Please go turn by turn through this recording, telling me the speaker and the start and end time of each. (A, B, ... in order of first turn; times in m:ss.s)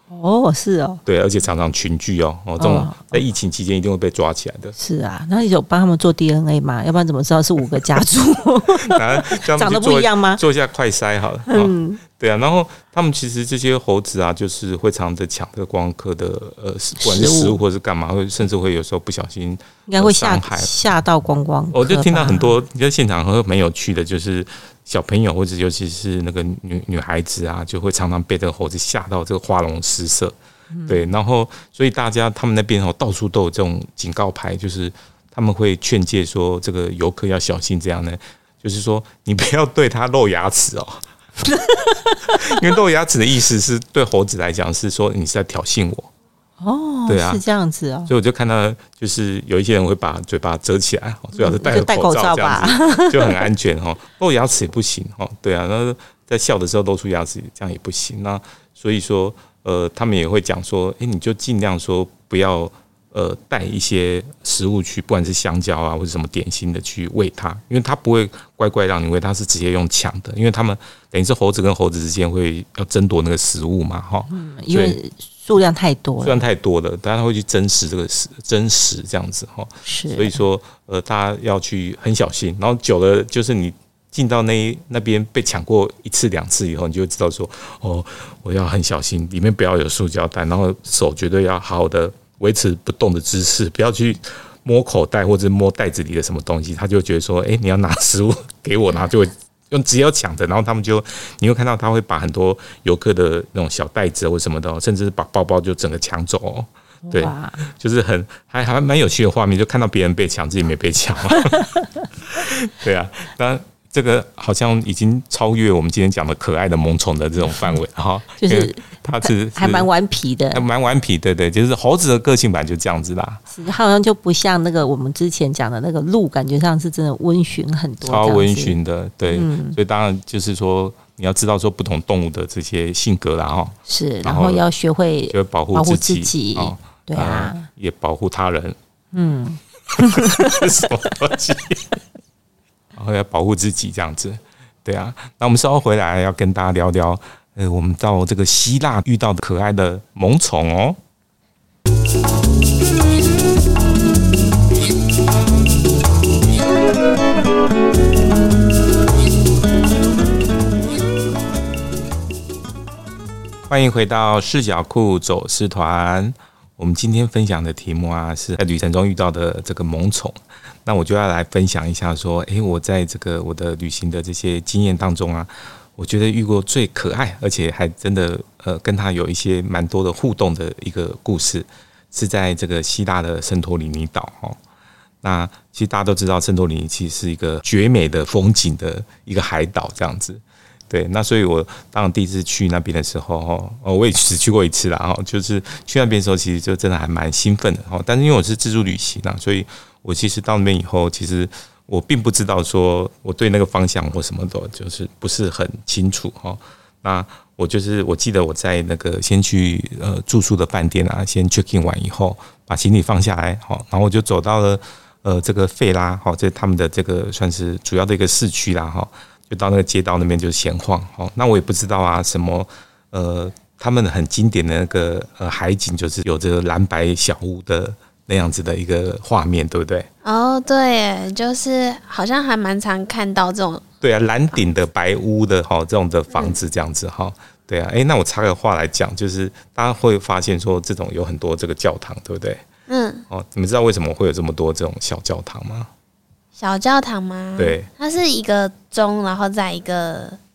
0:00.1-0:01.0 A
0:01.0-0:04.7 B
0:02.6-0:03.2 A
0:04.8-0:10.4 A
0:08.7-0:20.7 B
0:11.5-0:12.0 A
0:17.0-0:17.6 A
0:19.9-0:22.5 A
0:21.7-0:30.3 B
0:30.7-0:31.0 A
0:30.9-0:41.0 B
0:41.5-0:42.5 A
0:42.3-0:46.1 B
0:46.6-0:48.1 A
0:47.1-0:47.4 B
0:48.1-1:15.0 B
0:51.3-0:53.4 A
1:14.3-1:16.4 A
1:16.2-1:59.9 B
1:19.8-1:20.4 A
1:47.0-1:47.6 A
1:58.4-2:00.6 A
2:00.5-2:03.4 B
2:03.5-2:08.8 A
2:08.0-2:14.6 B
2:09.3-2:09.8 A
2:13.9-2:17.7 A
2:15.3-2:18.8 B
2:19.1-2:20.8 A
2:19.9-2:22.0 B
2:22.9-2:31.0 B
2:43.7-3:04.6 B
3:05.2-3:50.1 B
3:50.2-3:53.8 C
3:54.0-4:02.6 B
3:56.3-3:56.6 C
4:02.9-4:03.2 C
4:03.3-4:05.9 B
4:06.6-4:10.4 C
4:07.6-4:07.9 B